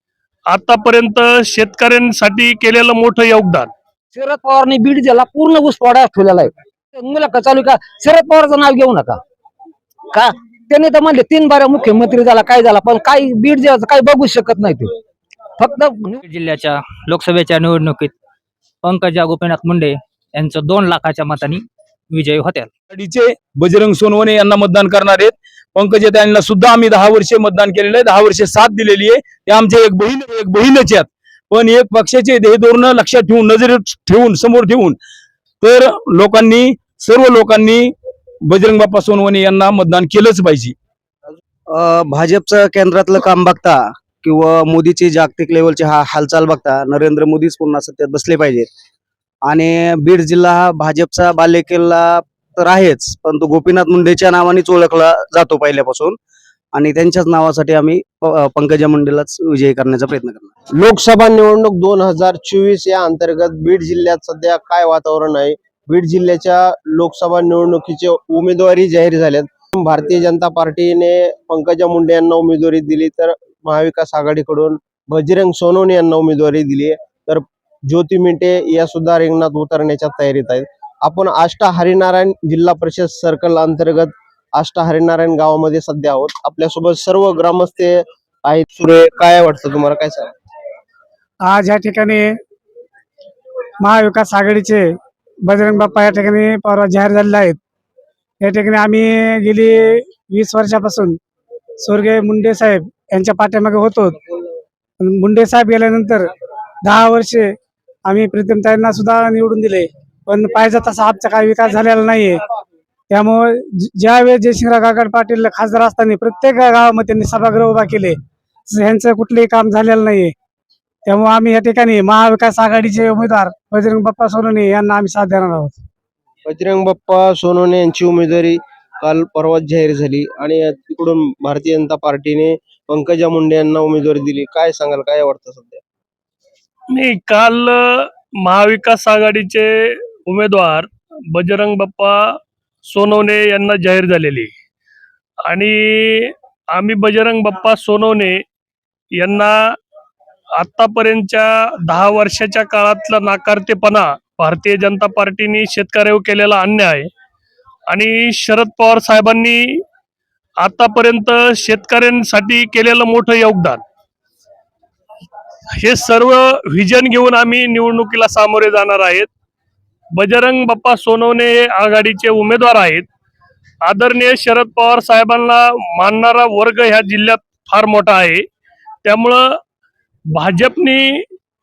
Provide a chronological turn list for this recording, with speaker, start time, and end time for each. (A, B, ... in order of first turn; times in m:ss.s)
0:00.5-0:03.7 A
0:04.1-0:09.2 B
0:10.1-0:14.9 B
0:15.6-0:16.2 B
0:16.2-0:18.1 C
0:18.8-0:22.7 C
0:22.9-0:35.0 D
0:35.6-0:37.9 D
0:38.5-0:40.7 D
0:41.7-0:48.7 E
0:49.5-0:56.2 E
0:56.7-1:00.5 E
1:00.8-1:30.3 F
1:31.5-1:32.2 G
1:33.8-1:34.8 G
1:35.5-1:37.6 G
1:38.4-1:39.8 G
1:40.3-1:41.1 G
1:41.9-1:44.1 G
1:45.0-1:46.2 G
1:46.9-1:47.5 G
1:48.1-1:52.4 G
1:53.1-1:58.1 G
1:58.7-2:00.3 G
2:01.1-2:05.8 G
2:06.5-2:15.7 F
2:16.9-2:22.2 A
2:22.9-2:24.5 A
2:25.5-2:28.4 A
2:29.2-2:29.5 A
2:30.6-2:37.1 A
2:37.9-2:39.8 A
2:40.6-2:43.8 A
2:45.8-2:49.3 A
2:50.2-2:53.1 A
2:53.8-2:58.4 A
2:59.0-2:59.6 A
3:00.4-3:01.2 A